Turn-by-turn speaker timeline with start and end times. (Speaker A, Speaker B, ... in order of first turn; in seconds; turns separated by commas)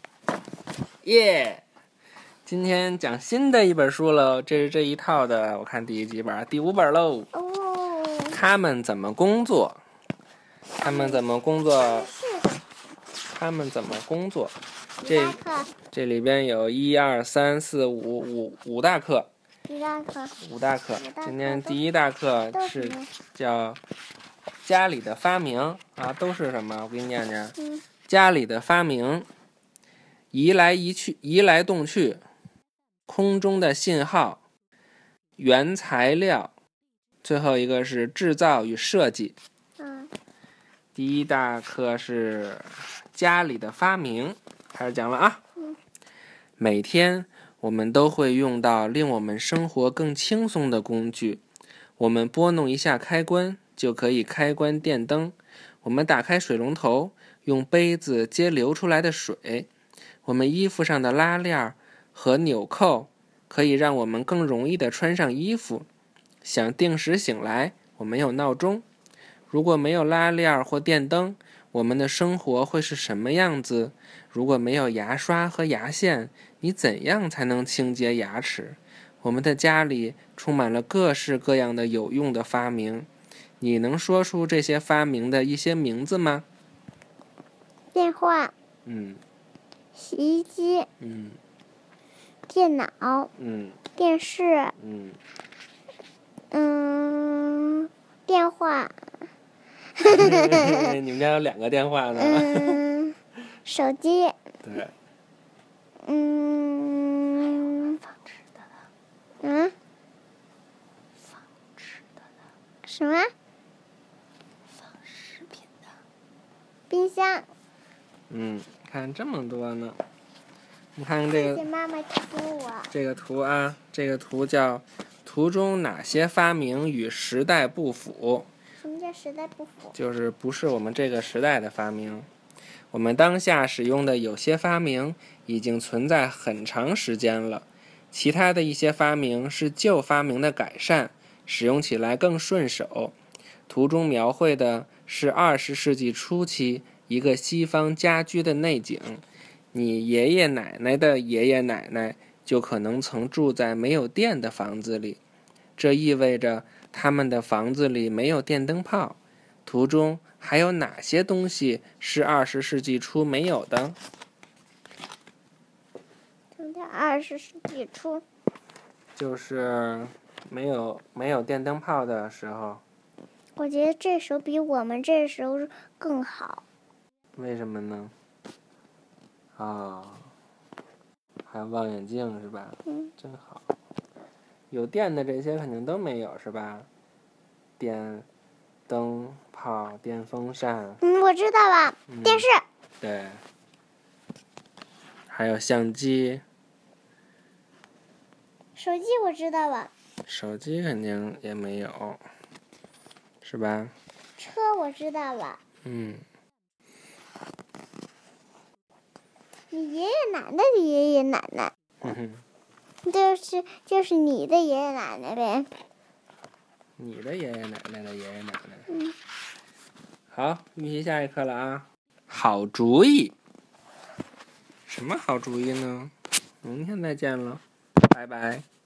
Speaker A: 1.0-1.6, Speaker A: 2.5-7.3, Speaker B: 7.3-8.4, Speaker A: 8.3-9.8, Speaker B: 10.8-12.6, Speaker A: 10.8-12.1, Speaker A: 13.3-15.4, Speaker B: 15.0-15.7, Speaker A: 15.9-19.3, Speaker B: 19.7-20.4, Speaker A: 20.4-23.8, Speaker B: 21.0-21.8, Speaker B: 22.5-23.1, Speaker A: 24.6-27.5, Speaker B: 27.6-27.8, Speaker A: 28.1-29.3, Speaker A: 30.3-32.2, Speaker A: 33.1-34.4, Speaker A: 35.4-36.5, Speaker A: 37.2-39.4, Speaker B: 39.8-40.1, Speaker A: 40.9-45.4, Speaker A: 46.6-51.4, Speaker A: 52.0-59.7, Speaker A: 60.2-65.9, Speaker A: 66.4-68.8, Speaker A: 69.5-83.1, Speaker A: 83.6-86.5, Speaker B: 87.9-88.5, Speaker A: 88.8-89.2, Speaker B: 90.0-90.9, Speaker A: 91.0-91.4, Speaker B: 92.5-93.3, Speaker A: 93.4-93.8, Speaker B: 94.0-94.7, Speaker A: 94.8-95.2, Speaker B: 96.5-98.9, Speaker B: 99.9-100.9, Speaker A: 100.0-102.8, Speaker B: 102.2-104.3, Speaker A: 104.6-104.9, Speaker B: 106.0-108.0, Speaker B: 109.4-109.7, Speaker B: 112.8-113.3, Speaker B: 116.9-117.5, Speaker A: 118.3-120.0, Speaker A: 121.0-121.6, Speaker B: 121.3-122.9, Speaker A: 122.9-128.5, Speaker B: 128.8-129.9, Speaker A: 129.9-132.3, Speaker A: 132.9-143.1, Speaker A: 143.7-155.2, Speaker A: 155.8-164.0, Speaker B: 166.6-168.2, Speaker A: 169.2-172.8, Speaker B: 173.6-176.6, Speaker A: 177.3-178.1, Speaker A: 179.5-180.3, Speaker A: 181.5-183.6, Speaker B: 182.8-183.1, Speaker A: 184.7-186.9, Speaker A: 187.8-188.3, Speaker A: 188.9-191.0, Speaker B: 191.0-192.6, Speaker A: 192.1-192.5, Speaker A: 193.0-193.4, Speaker A: 195.3-196.4, Speaker B: 198.8-199.9, Speaker A: 200.2-202.2, Speaker A: 203.4-203.9, Speaker B: 204.4-205.6, Speaker A: 205.8-206.2, Speaker B: 209.7-211.7, Speaker A: 212.0-212.4, Speaker B: 213.0-215.7, Speaker A: 217.0-218.9, Speaker B: 218.9-219.1, Speaker A: 220.3-223.3, Speaker A: 224.9-228.6